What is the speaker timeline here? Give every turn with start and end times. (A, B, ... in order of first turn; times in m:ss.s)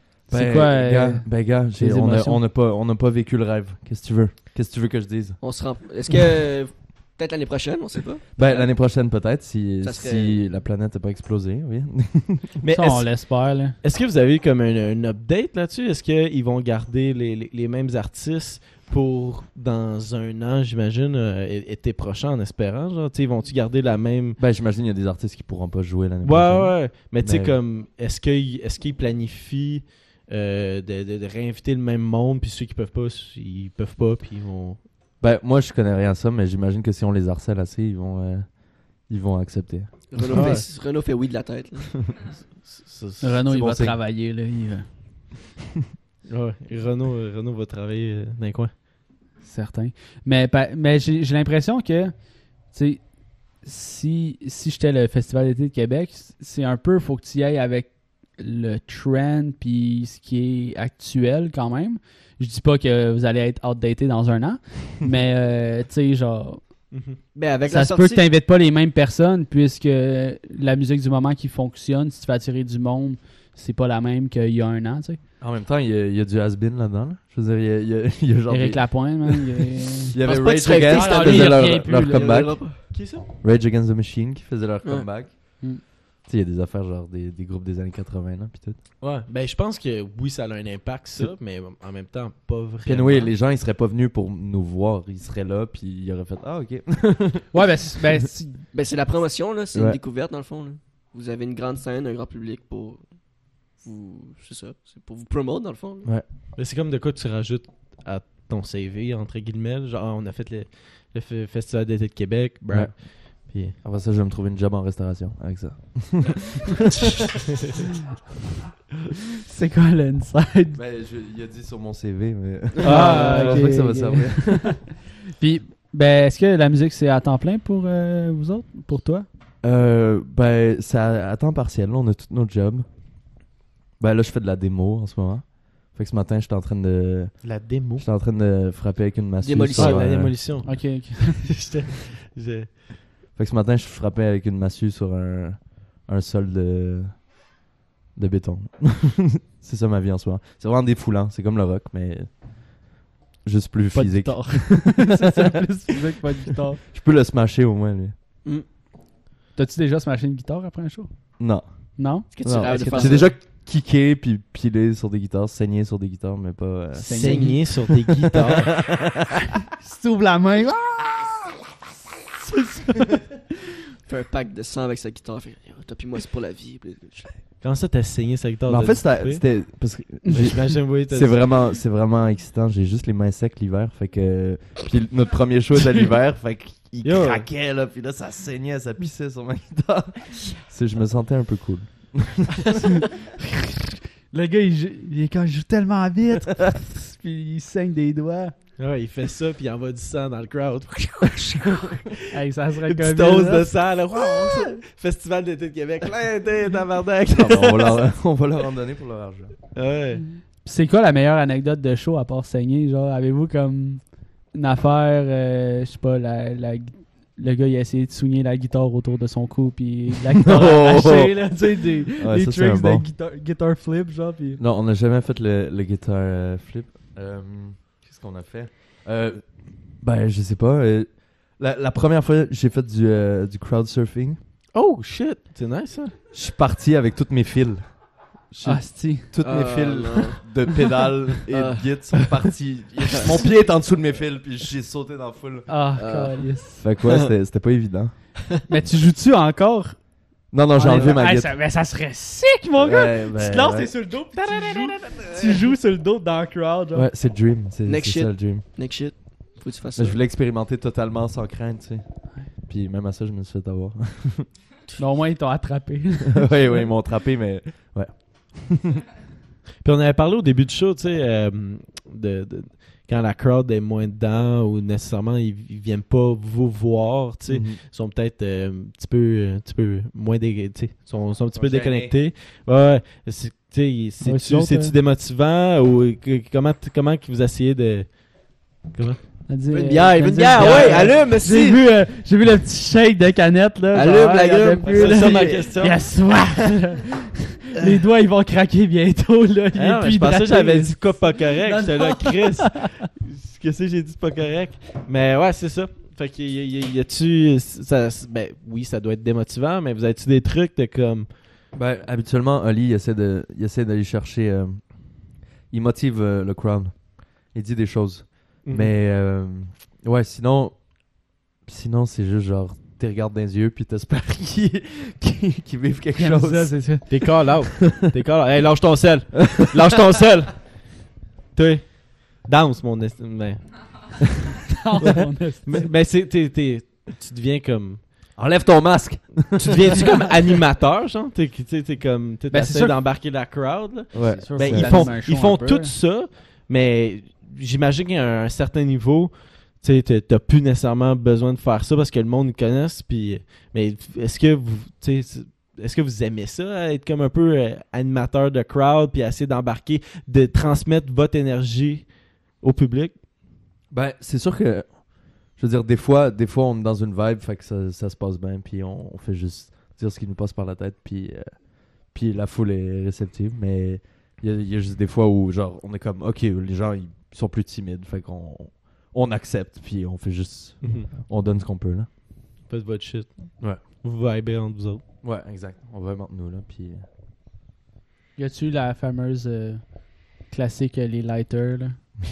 0:00.3-0:02.4 A
0:00.3-0:05.4 B
0:05.4-0:08.7 C
0:08.4-0:12.6 B
0:09.8-0:10.4 C
0:12.6-0:13.2 D
0:12.7-0:13.8 A
0:13.8-0:24.4 D
0:24.4-0:27.6 B
0:26.2-0:34.8 D
0:35.2-0:40.5 B
0:40.1-0:42.0 C
0:40.3-0:40.6 D
0:42.1-0:43.4 D
0:43.2-0:44.9 A
0:43.5-0:44.0 B
0:46.3-0:48.7 D
0:49.4-1:06.9 A
1:06.9-1:07.2 D
1:07.3-1:08.2 C
1:07.7-1:15.2 A
1:15.4-1:19.4 B
1:18.5-1:20.2 A
1:20.1-1:25.7 B
1:20.2-1:22.8 C
1:20.7-1:22.4 A
1:22.9-1:23.2 D
1:26.2-1:28.8 B
1:29.0-1:33.3 D
1:32.8-1:37.5 B
1:37.5-1:38.6 A
1:38.7-1:46.1 C
1:39.7-1:40.0 B
1:46.6-1:53.8 D
1:52.7-1:56.6 B
1:59.4-2:00.8 A
2:00.7-2:04.8 B
2:02.8-2:03.7 D
2:02.8-2:09.3 A
2:09.6-2:12.9 B
2:14.0-2:20.4 B
2:17.4-2:18.0 D
2:19.4-2:20.1 C
2:19.7-2:23.0 D
2:20.6-2:21.6 A
2:23.4-2:27.4 B
2:28.1-2:32.9 B
2:33.4-2:35.6 B
2:33.9-2:36.8 A
2:36.8-2:38.1 B
2:39.5-2:41.1 A
2:41.4-2:41.6 B
2:42.0-2:43.2 A
2:42.2-2:49.2 B
2:42.3-2:43.4 C
2:47.0-2:47.6 A
2:47.1-2:48.8 D
2:47.2-2:47.6 C
2:49.7-2:51.5 A
2:52.4-2:53.3 A
2:54.0-2:57.3 C
2:57.6-3:01.5 D
2:58.7-3:12.8 B
3:07.0-3:07.5 D
3:14.3-3:18.5 A
3:18.8-3:28.1 D
3:22.3-3:24.7 A
3:27.3-3:29.5 B
3:29.7-3:30.2 D
3:30.6-3:44.6 A
3:40.4-3:43.1 B
3:44.6-3:54.4 B
3:54.7-3:56.1 D
3:56.3-4:05.7 B
3:58.6-3:59.3 A
3:59.4-4:00.5 C
4:01.5-4:02.3 C
4:03.1-4:03.4 C
4:05.7-4:06.8 A
4:06.0-4:06.5 C
4:06.8-4:08.1 B
4:08.7-4:17.1 A
4:10.5-4:11.6 B
4:12.8-4:13.9 B
4:16.9-4:18.6 B
4:17.8-4:20.2 C
4:20.0-4:24.5 B
4:25.0-4:26.5 A
4:26.3-4:29.0 B
4:29.8-4:49.4 D
4:37.5-4:37.8 B
4:41.5-4:42.2 B
4:44.2-4:44.9 A
4:49.5-5:02.9 A
4:49.7-4:51.8 C
4:50.5-4:51.2 D
4:53.9-4:55.6 C
4:54.8-4:56.0 D
4:55.2-4:55.7 B
4:59.7-5:11.3 D
5:11.7-5:27.2 B
5:18.6-5:18.9 D
5:26.1-5:27.2 A
5:27.1-5:31.0 D
5:31.5-5:34.2 D
5:34.7-5:35.9 A
5:35.6-5:38.1 D
5:38.4-5:40.2 B
5:39.6-6:03.2 D
5:42.5-5:43.0 A
5:44.1-5:45.2 B
5:44.5-5:45.9 A
6:03.9-6:22.1 B
6:20.8-6:21.1 D
6:22.6-6:25.0 D
6:25.2-6:27.0 B
6:28.4-6:32.1 A